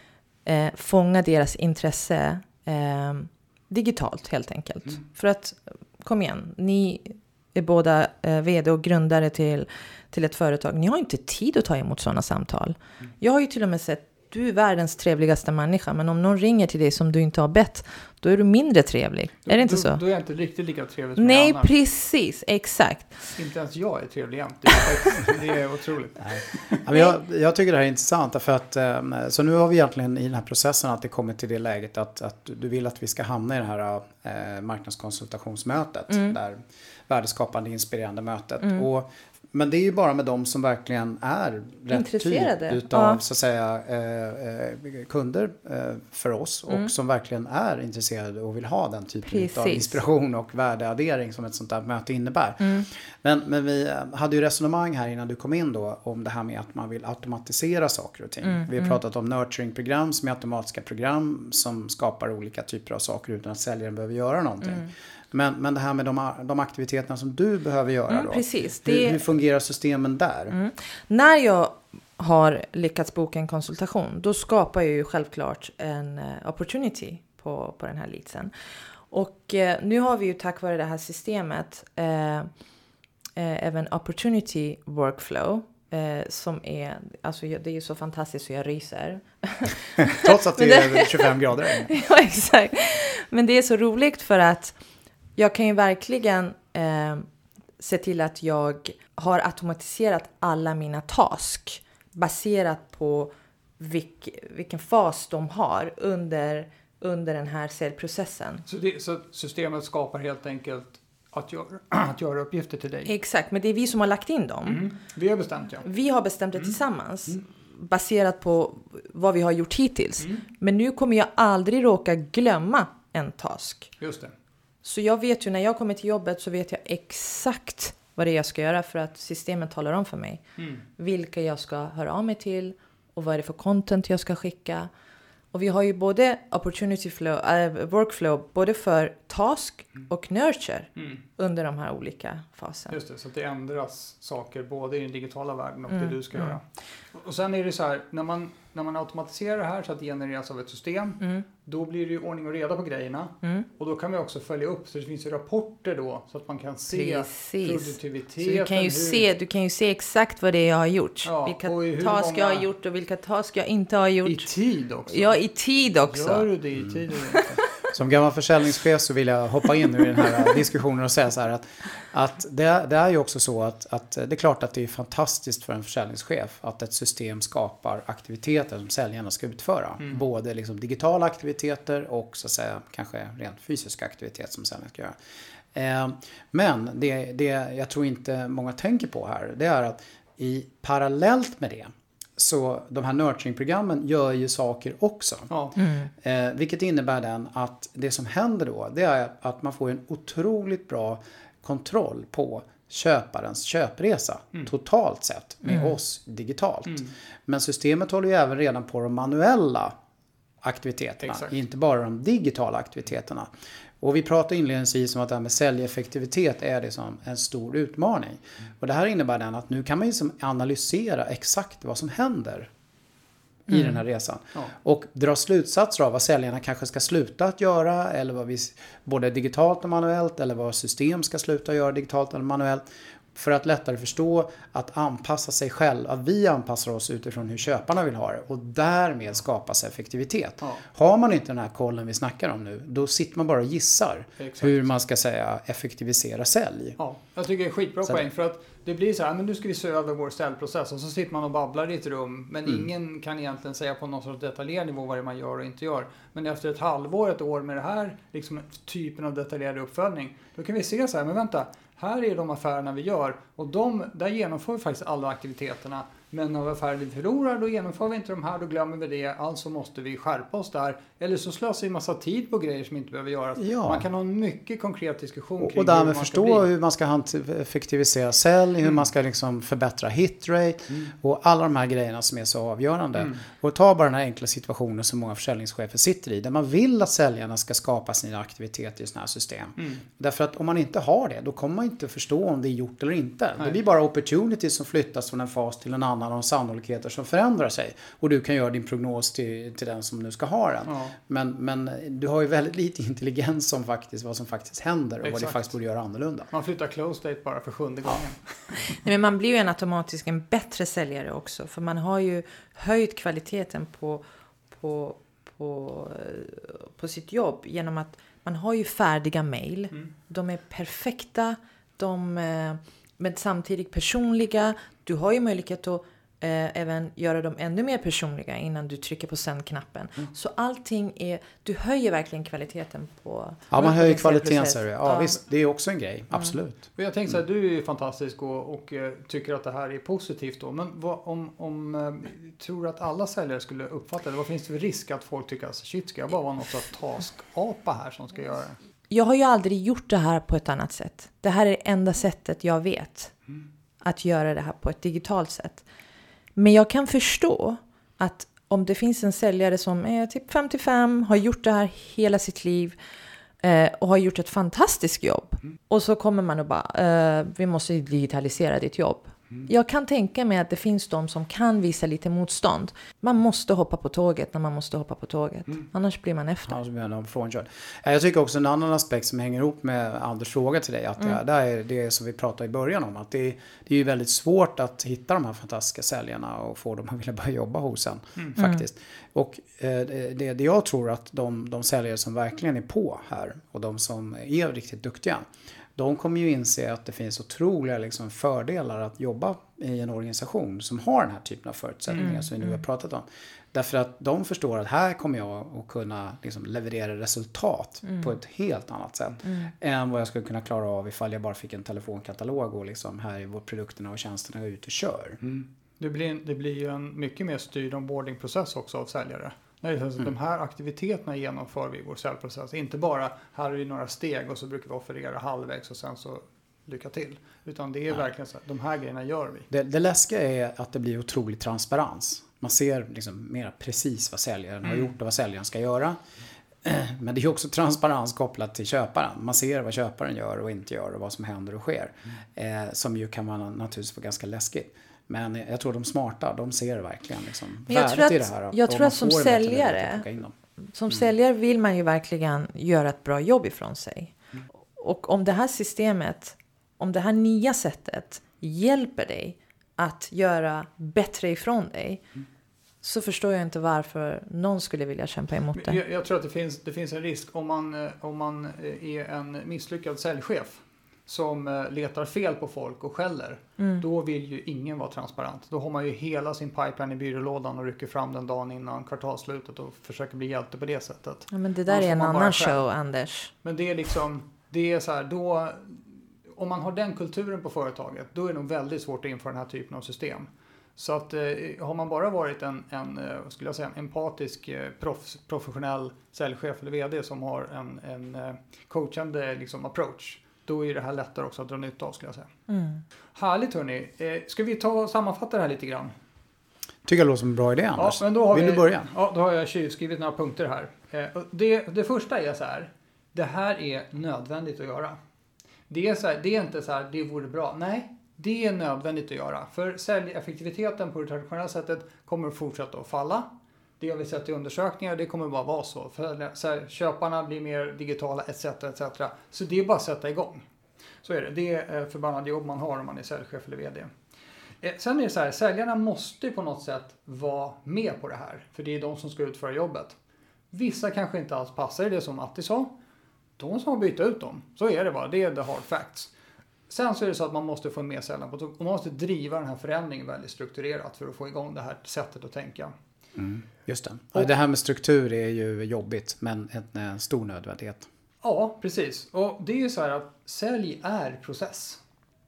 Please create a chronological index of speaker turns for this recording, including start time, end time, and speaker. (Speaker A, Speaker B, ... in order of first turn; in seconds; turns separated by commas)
Speaker A: 0.4-20.0, Speaker B: 19.4-21.7, Speaker A: 21.2-23.3, Speaker B: 23.4-26.8, Speaker C: 26.3-70.5, Speaker A: 41.9-43.2, Speaker A: 49.2-50.0, Speaker A: 58.4-59.0, Speaker A: 68.1-69.2, Speaker A: 70.5-78.5, Speaker A: 79.1-82.5, Speaker A: 83.3-94.8, Speaker C: 90.0-91.9, Speaker A: 95.3-97.3, Speaker A: 97.8-108.6, Speaker B: 108.7-113.1, Speaker A: 113.0-114.8, Speaker B: 114.7-115.8, Speaker A: 115.8-123.9, Speaker B: 124.0-124.3, Speaker A: 124.8-130.4, Speaker B: 130.6-130.8, Speaker A: 131.0-134.9, Speaker A: 135.5-142.9, Speaker B: 142.9-159.2, Speaker A: 145.9-146.5, Speaker A: 156.9-164.5, Speaker B: 161.2-162.7, Speaker B: 164.2-165.4, Speaker A: 165.1-166.5, Speaker B: 166.1-167.6, Speaker C: 167.9-185.2, Speaker C: 185.7-195.5, Speaker A: 195.8-196.1, Speaker C: 196.1-209.9, Speaker C: 210.6-213.5, Speaker B: 211.2-211.5, Speaker C: 214.0-222.7, Speaker C: 223.7-232.8, Speaker A: 223.7-224.0, Speaker C: 233.3-247.0, Speaker B: 244.4-244.8, Speaker B: 247.0-276.7, Speaker C: 273.6-274.1, Speaker C: 275.6-306.5, Speaker B: 289.8-290.0, Speaker B: 300.9-301.1, Speaker B: 305.2-305.7, Speaker B: 306.5-309.0, Speaker A: 308.8-335.4, Speaker C: 333.7-336.9, Speaker B: 336.9-348.8, Speaker A: 349.1-353.3, Speaker A: 354.0-355.8, Speaker A: 356.6-362.9, Speaker A: 363.6-376.8, Speaker C: 376.7-395.4, Speaker A: 388.6-388.8, Speaker C: 395.9-415.4, Speaker A: 409.4-409.7, Speaker B: 415.6-429.7, Speaker C: 429.7-436.2, Speaker C: 436.8-450.5, Speaker A: 447.9-450.2, Speaker A: 450.9-454.3, Speaker A: 454.9-462.2, Speaker A: 463.0-466.0, Speaker B: 465.7-482.8, Speaker A: 481.5-483.5, Speaker B: 483.6-502.5, Speaker A: 502.7-503.0, Speaker B: 503.3-506.1, Speaker C: 507.1-509.1, Speaker B: 508.0-515.2, Speaker B: 515.9-523.5, Speaker B: 524.0-530.6, Speaker B: 531.2-534.1, Speaker B: 534.8-540.1, Speaker B: 540.7-542.9, Speaker B: 543.6-546.3, Speaker B: 546.9-552.9, Speaker C: 553.4-558.1, Speaker B: 558.4-562.0